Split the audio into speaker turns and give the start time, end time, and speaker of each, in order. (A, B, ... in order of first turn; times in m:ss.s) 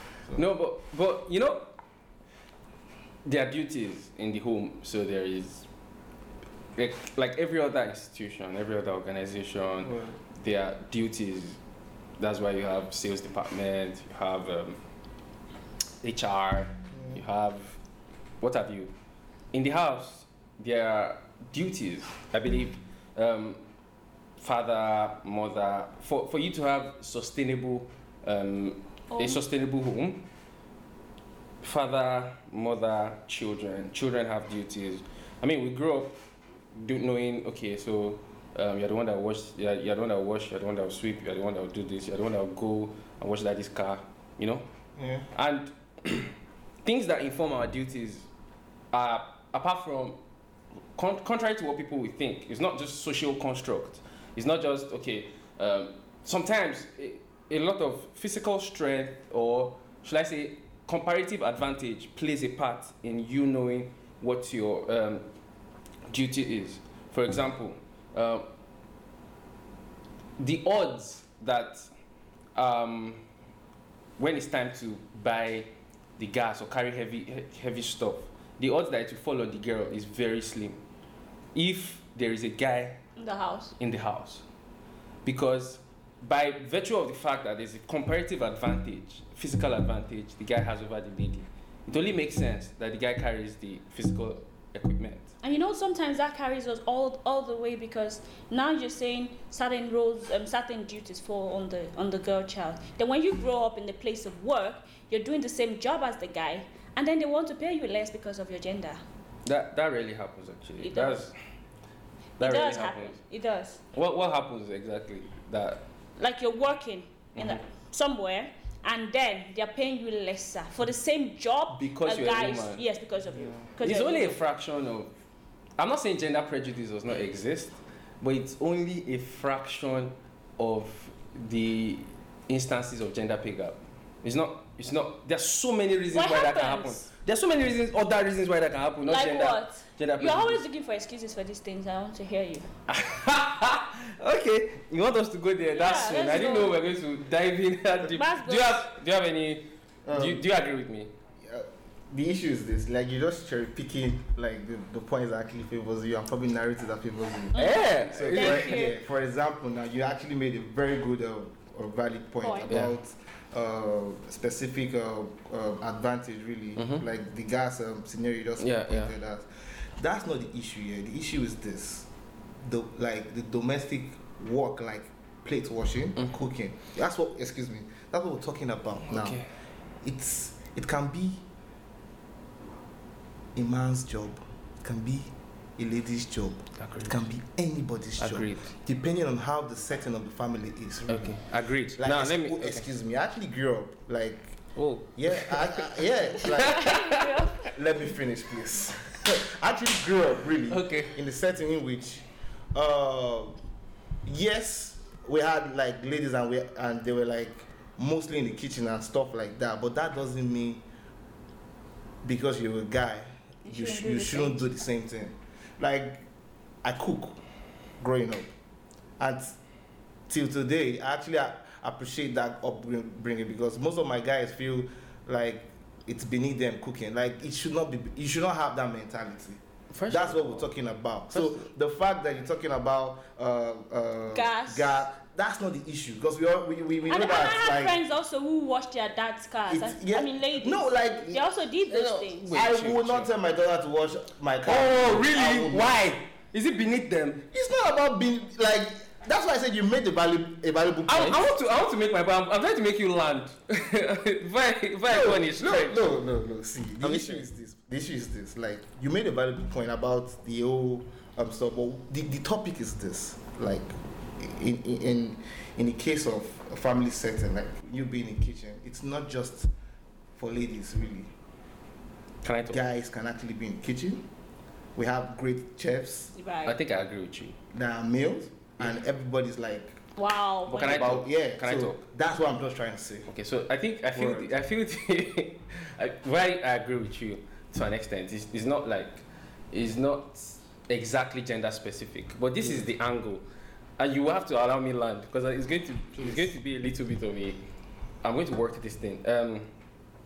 0:00.3-0:01.8 A
0:03.2-0:05.7 A
0:06.8-0:11.6 A
0:09.8-0:10.2 B
0:12.2-0:14.8 A
0:16.0-0:17.8 A
0:16.9-0:17.2 B
0:18.4-0:18.9 A
0:19.5-0:23.6 A
0:24.4-0:30.3 A
0:29.1-0:29.4 C
0:31.6-0:36.2 A
0:36.7-0:44.7 A
0:45.0-0:45.3 B
0:45.3-0:48.3 A
0:48.9-0:50.2 A
0:51.0-1:05.3 A
1:06.1-1:08.5 A
1:10.4-1:11.9 A
1:12.5-1:13.2 A
1:14.2-1:20.8 A
1:21.5-1:23.0 A
1:23.2-1:23.8 C
1:23.8-1:24.4 A
1:25.2-1:35.3 A
1:35.4-1:49.0 C
1:49.4-1:51.3 A
1:50.8-1:51.2 C
1:52.4-1:53.8 C
1:52.4-1:53.2 A
1:53.9-1:55.8 A
1:56.2-2:04.4 C
1:57.3-1:57.6 A
2:01.7-2:02.8 A
2:03.3-2:03.7 B
2:03.8-2:05.1 A
2:05.8-2:20.6 A
2:16.1-2:17.0 C
2:19.1-2:22.7 C
2:22.9-2:31.1 A
2:25.7-2:26.7 C
2:28.1-2:28.8 C
2:30.1-2:30.4 B
2:31.4-2:52.1 B
2:37.5-2:39.0 C
2:37.6-2:38.8 A
2:42.4-2:42.7 C
2:42.7-2:42.9 A
2:46.8-2:47.0 A
2:48.6-2:49.1 A
2:52.6-2:59.4 B
2:56.2-2:56.5 A
2:59.0-2:59.5 A
3:00.0-3:01.4 B
3:03.5-3:11.4 B
3:06.8-3:07.2 A
3:08.2-3:08.7 A
3:11.1-3:12.9 A
3:12.0-3:14.6 B
3:14.8-3:17.3 A
3:15.2-3:16.9 B
3:16.6-3:17.7 C
3:17.6-3:23.6 B
3:20.7-3:21.2 A
3:24.2-3:30.8 B
3:32.2-3:36.2 B
3:33.6-3:34.7 C
3:36.8-3:37.4 B
3:38.0-3:38.5 B
3:39.2-3:39.5 B
3:40.3-3:58.0 B
3:49.9-3:50.7 A
3:51.3-3:51.7 A
3:54.3-3:55.0 C
3:57.1-4:02.5 C
3:59.7-4:01.4 B
4:01.9-4:03.3 A
4:02.5-4:06.0 B
4:04.6-4:07.4 A
4:07.5-4:11.5 B
4:11.1-4:16.1 A
4:15.1-4:29.7 B
4:17.0-4:17.4 A
4:30.4-4:31.3 B
4:32.4-4:32.9 A
4:32.7-4:34.2 B
4:35.0-4:36.3 B
4:36.4-4:36.8 C
4:36.6-4:37.6 A
4:37.7-4:40.0 B
4:40.2-4:41.1 C
4:40.7-4:42.0 A
4:40.8-4:43.3 B
4:43.3-4:53.4 A
4:44.2-4:44.5 B
4:52.6-4:52.9 B
4:54.0-4:57.6 A
4:56.2-4:56.5 B
4:58.2-4:59.7 A